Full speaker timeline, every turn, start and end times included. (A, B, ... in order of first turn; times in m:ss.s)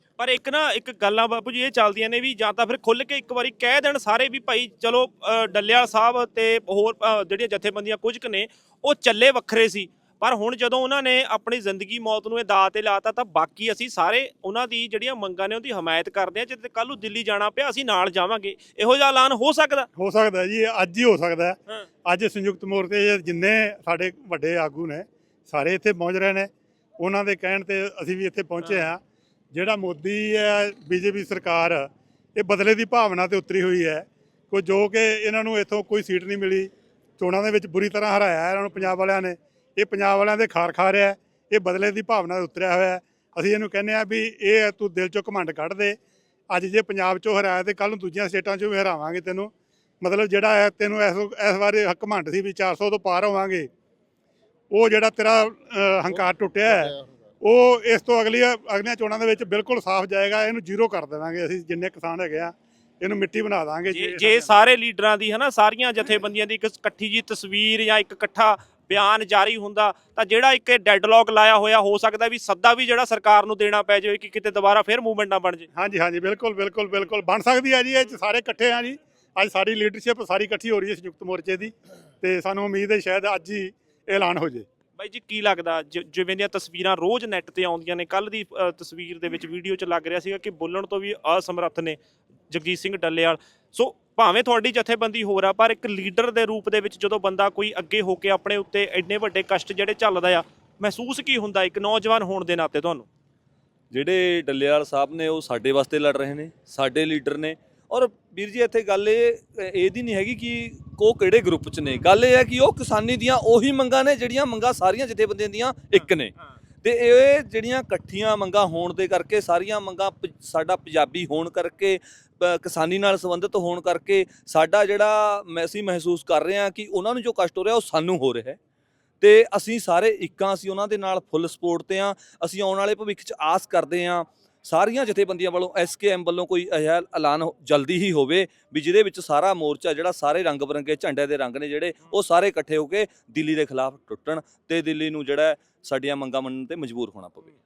0:00.2-0:19.9 A
0:19.9-0:26.5 B
0:27.0-0:29.0 B
0:28.6-0:28.9 A
0:29.5-0:46.0 B
0:46.5-0:53.7 B
0:54.7-1:04.6 B
1:03.9-1:15.7 A
1:15.7-1:24.7 B
1:25.0-1:32.0 A
1:32.5-1:43.1 A
1:43.9-2:08.6 C
2:09.2-2:27.5 C